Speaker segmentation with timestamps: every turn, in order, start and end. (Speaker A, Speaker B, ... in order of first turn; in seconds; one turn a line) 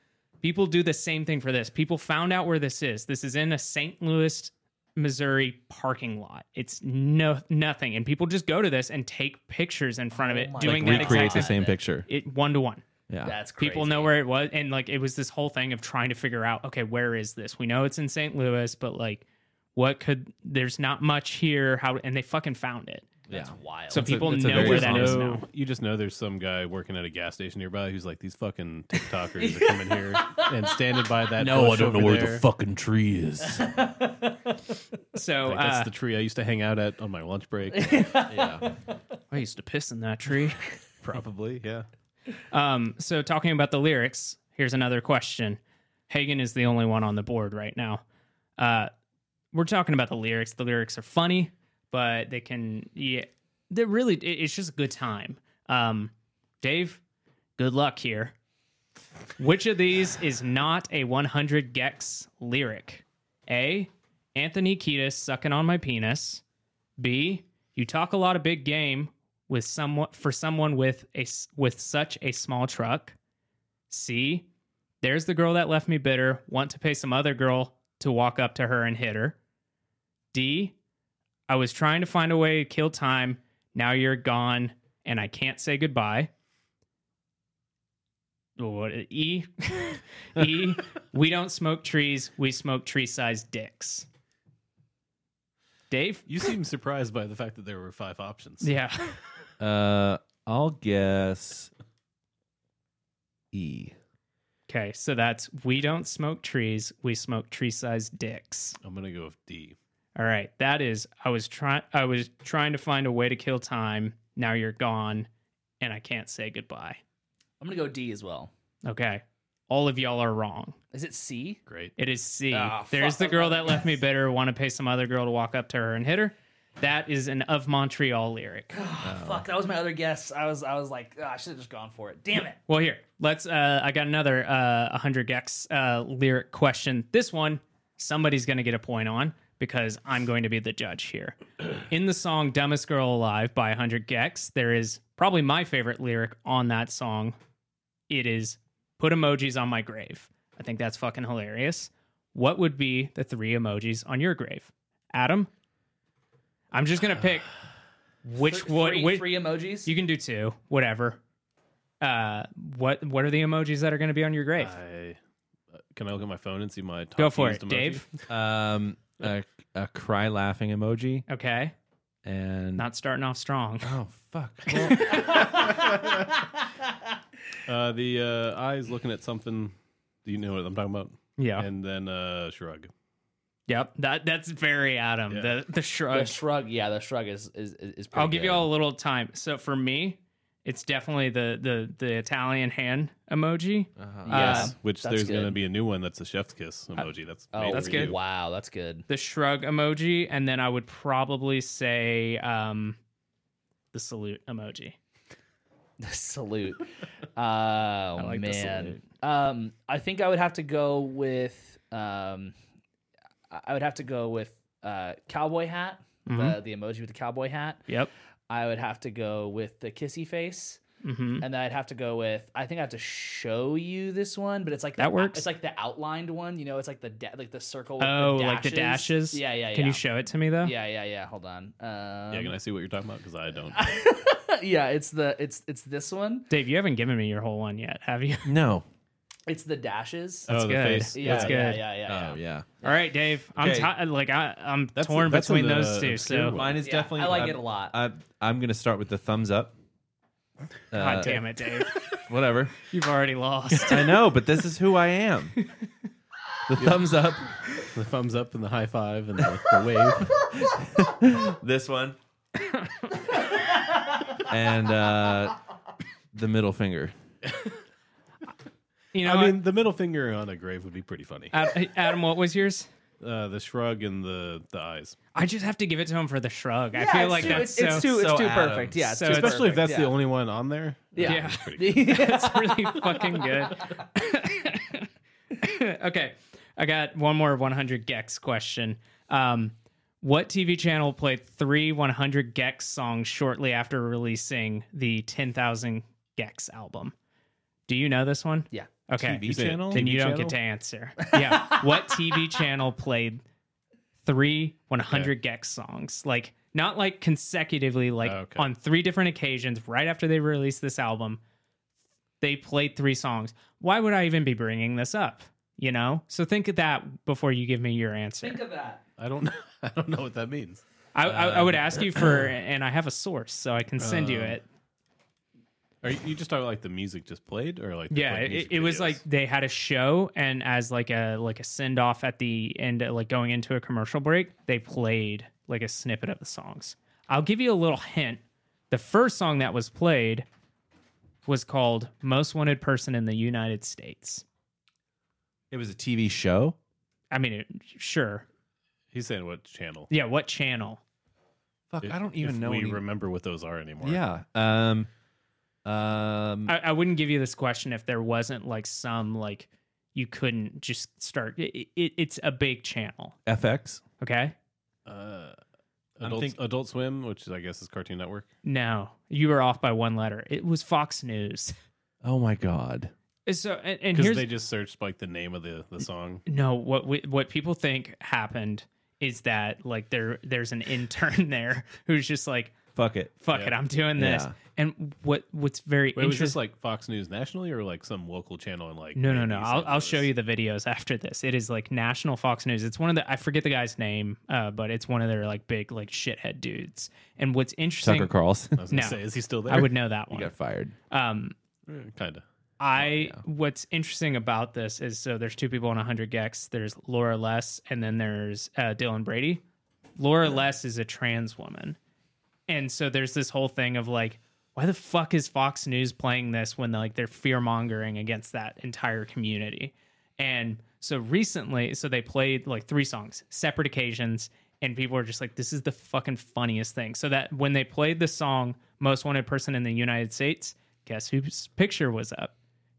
Speaker A: 0.4-12.8
Speaker B: 10.1-11.8
Speaker C: 10.6-12.1
Speaker C: 13.1-13.4
Speaker B: 13.2-14.1
Speaker A: 13.6-23.1
Speaker B: 23.3-24.1
Speaker C: 23.3-25.3
Speaker A: 23.9-25.5
Speaker D: 24.2-32.4
Speaker B: 29.4-30.5
Speaker C: 31.4-33.7
Speaker B: 33.6-34.4
Speaker A: 35.1-35.9
Speaker D: 35.5-38.1
Speaker B: 37.8-38.8
Speaker C: 38.3-38.7
Speaker A: 39.3-40.7
Speaker D: 41.1-41.9
Speaker C: 41.1-41.4
Speaker A: 42.5-48.0
Speaker A: 48.6-48.9
Speaker A: 49.5-57.0
Speaker A: 57.6-58.3
Speaker A: 59.4-66.4
Speaker A: 67.0-73.2
Speaker A: 73.9-74.5
Speaker A: 75.0-79.4
Speaker A: 80.3-80.8
Speaker A: 81.5-86.3
Speaker A: 88.6-94.1
Speaker A: 95.9-96.3
Speaker D: 96.3-98.7
Speaker A: 98.6-99.2
Speaker C: 99.6-101.7
Speaker C: 103.5-104.0
Speaker A: 104.7-108.8
Speaker D: 108.8-109.8
Speaker A: 110.2-115.3
Speaker A: 115.8-117.0
Speaker B: 117.6-118.5
Speaker A: 118.8-120.8
Speaker B: 120.9-121.6
Speaker D: 121.7-121.9
Speaker A: 122.0-128.7
Speaker B: 122.5-124.0
Speaker B: 128.7-132.6
Speaker C: 129.0-129.5
Speaker A: 132.7-147.4
Speaker A: 148.1-155.5
Speaker A: 156.7-157.5
Speaker A: 158.2-161.2
Speaker B: 158.4-159.9
Speaker A: 162.0-164.8
Speaker D: 164.6-165.2
Speaker D: 165.7-168.2
Speaker A: 167.2-168.1
Speaker C: 168.3-171.2
Speaker A: 171.3-171.7
Speaker C: 172.2-172.9
Speaker A: 172.8-173.9
Speaker C: 173.8-175.2
Speaker A: 174.7-175.4
Speaker D: 174.7-176.2
Speaker B: 175.3-175.6
Speaker D: 177.7-179.7
Speaker D: 180.2-182.9
Speaker A: 181.4-181.7
Speaker A: 183.7-186.4
Speaker B: 186.1-188.7
Speaker A: 188.1-194.7
Speaker C: 194.0-194.6
Speaker B: 194.3-195.6
Speaker D: 194.3-198.2
Speaker B: 197.0-199.1
Speaker A: 197.7-198.1
Speaker A: 199.1-203.0
Speaker A: 203.9-205.0
Speaker B: 206.0-212.5
Speaker A: 208.2-209.0
Speaker B: 213.5-217.9
Speaker A: 216.3-216.6
Speaker B: 218.5-220.8
Speaker A: 221.0-221.4
Speaker B: 221.4-230.0
Speaker A: 225.0-225.5
Speaker A: 228.0-230.8
Speaker B: 230.6-232.6
Speaker D: 232.3-233.8
Speaker B: 233.7-236.5
Speaker A: 236.5-238.5
Speaker C: 238.4-238.9
Speaker B: 239.5-240.5
Speaker A: 240.5-241.8
Speaker D: 240.5-241.6
Speaker B: 241.2-242.9
Speaker C: 242.1-242.7
Speaker A: 242.8-246.6
Speaker C: 243.6-243.9
Speaker D: 245.0-246.8
Speaker C: 246.5-249.7
Speaker B: 246.8-248.0
Speaker C: 250.9-251.4
Speaker A: 250.9-252.0
Speaker C: 252.3-252.8
Speaker A: 252.9-254.1
Speaker C: 253.9-255.6
Speaker C: 256.7-257.5
Speaker D: 257.8-260.5
Speaker C: 260.4-262.2
Speaker A: 262.6-263.1
Speaker C: 264.4-265.6
Speaker C: 266.3-267.1
Speaker A: 269.1-269.6
Speaker D: 269.2-271.6
Speaker A: 271.5-272.9
Speaker D: 273.2-275.2
Speaker A: 275.3-278.1
Speaker B: 276.9-280.1
Speaker C: 277.9-279.0
Speaker A: 279.0-279.6
Speaker D: 279.2-282.2
Speaker B: 281.1-284.0
Speaker A: 281.2-297.1
Speaker A: 297.9-303.4
Speaker C: 299.2-300.1
Speaker D: 299.4-300.6
Speaker B: 301.2-302.1
Speaker A: 304.2-311.4
Speaker D: 308.2-308.7
Speaker A: 312.4-318.6
Speaker B: 318.4-319.0
Speaker D: 319.2-320.8
Speaker A: 321.1-324.6
Speaker C: 321.2-322.0
Speaker D: 324.0-324.6
Speaker D: 326.0-329.2
Speaker A: 328.1-340.5
Speaker A: 341.5-344.4
Speaker C: 345.7-346.8
Speaker A: 347.3-348.4
Speaker D: 349.1-350.1
Speaker A: 350.1-351.0
Speaker C: 351.9-353.0
Speaker D: 352.0-354.2
Speaker C: 354.0-355.1
Speaker C: 355.9-356.7
Speaker A: 356.7-363.4
Speaker C: 363.5-364.0
Speaker A: 364.2-364.5
Speaker D: 365.1-365.6
Speaker D: 366.2-368.5
Speaker C: 366.2-366.6
Speaker A: 368.6-371.8
Speaker C: 372.2-373.1
Speaker A: 373.5-374.5
Speaker D: 374.1-376.4
Speaker A: 376.5-382.8
Speaker C: 383.0-383.3
Speaker A: 383.4-386.6
Speaker C: 384.2-384.6
Speaker D: 386.2-390.3
Speaker A: 389.2-398.3
Speaker C: 398.0-398.8
Speaker D: 398.8-399.9
Speaker A: 398.9-400.5
Speaker C: 400.3-400.9
Speaker A: 401.1-401.6
Speaker D: 401.9-402.4
Speaker A: 402.8-409.6
Speaker C: 403.0-403.4
Speaker A: 410.2-412.0
Speaker A: 412.7-432.5